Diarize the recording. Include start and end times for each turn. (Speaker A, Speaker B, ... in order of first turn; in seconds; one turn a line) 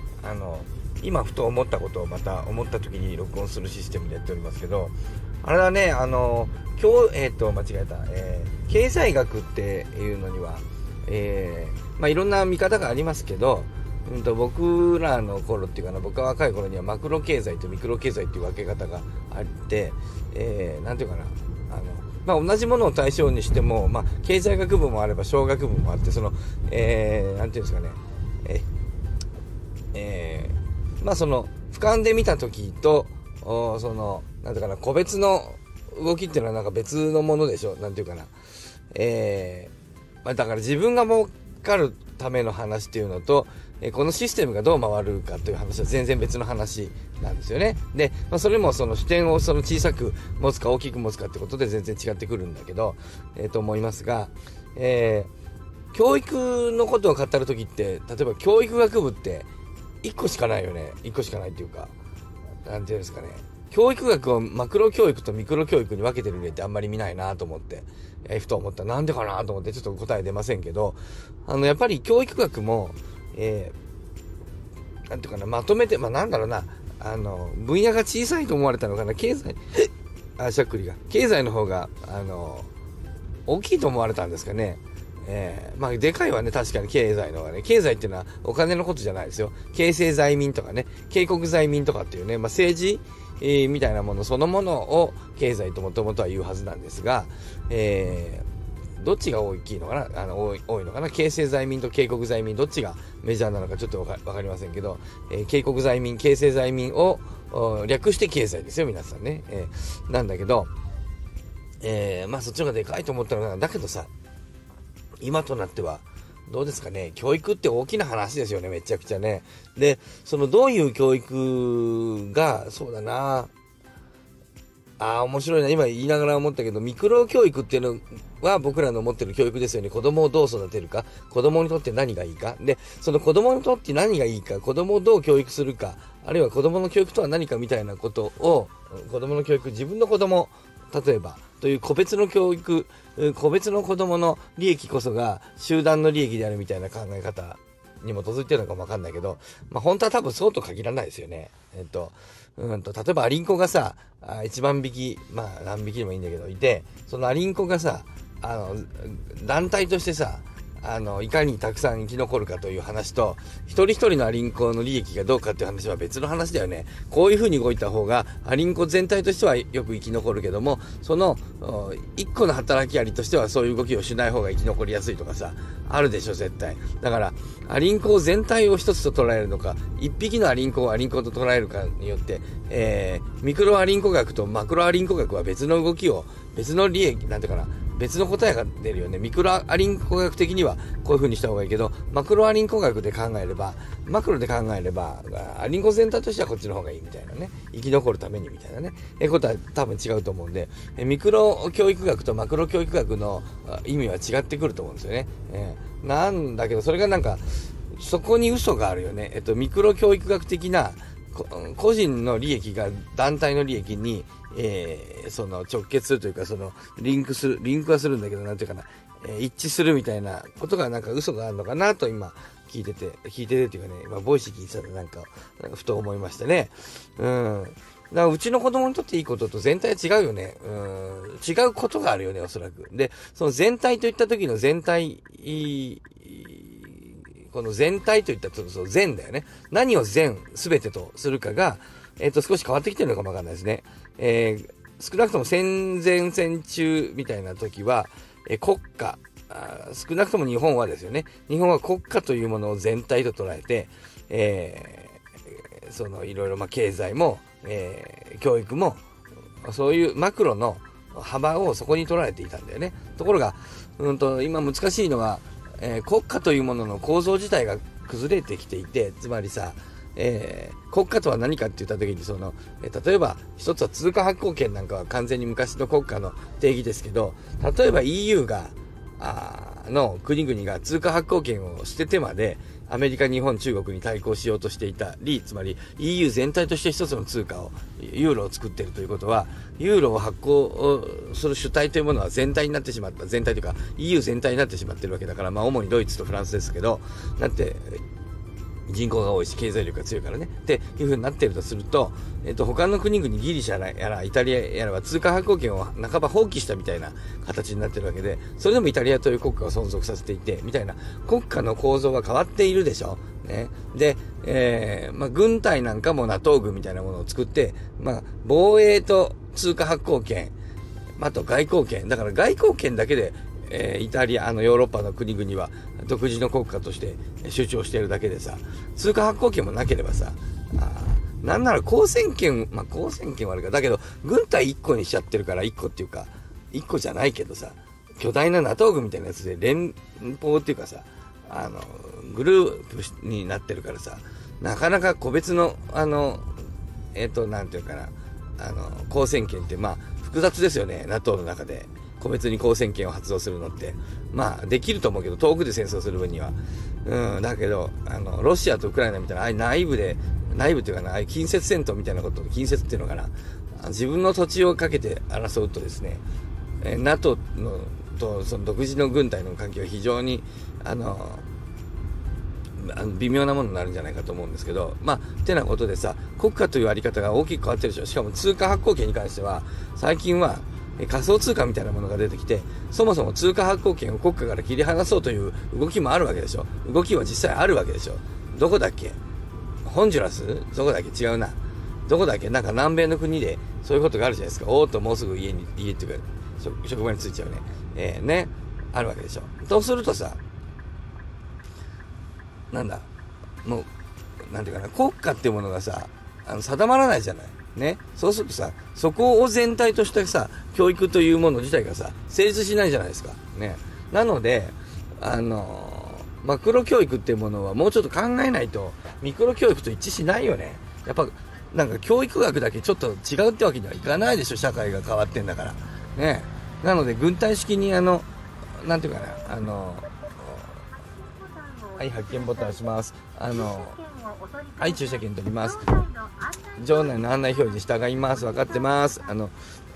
Speaker A: 0.2-28.7
Speaker A: 29.9-38.3
Speaker A: 38.9-39.7
Speaker A: 40.2-55.3
Speaker A: 55.9-59.5
Speaker A: 60.0-61.9
Speaker A: 62.6-73.8
Speaker A: 75.1-82.7
Speaker A: 83.5-98.5
Speaker A: 99.0-110.7
Speaker A: 111.8-114.1
Speaker A: 115.2-123.5
Speaker A: 125.0-259.0
Speaker A: 259.6-298.0
Speaker A: 298.9-320.5
Speaker A: 321.2-346.5
Speaker A: 347.1-366.2
Speaker A: 366.8-371.5
Speaker A: 372.8-389.2
Speaker A: 389.9-400.4
Speaker A: 402.7-403.1
Speaker A: 403.6-403.9
Speaker A: 404.4-428.3
Speaker A: 428.8-430.7
Speaker A: 432.0-434.0
Speaker A: 434.8-436.1
Speaker A: 436.8-439.5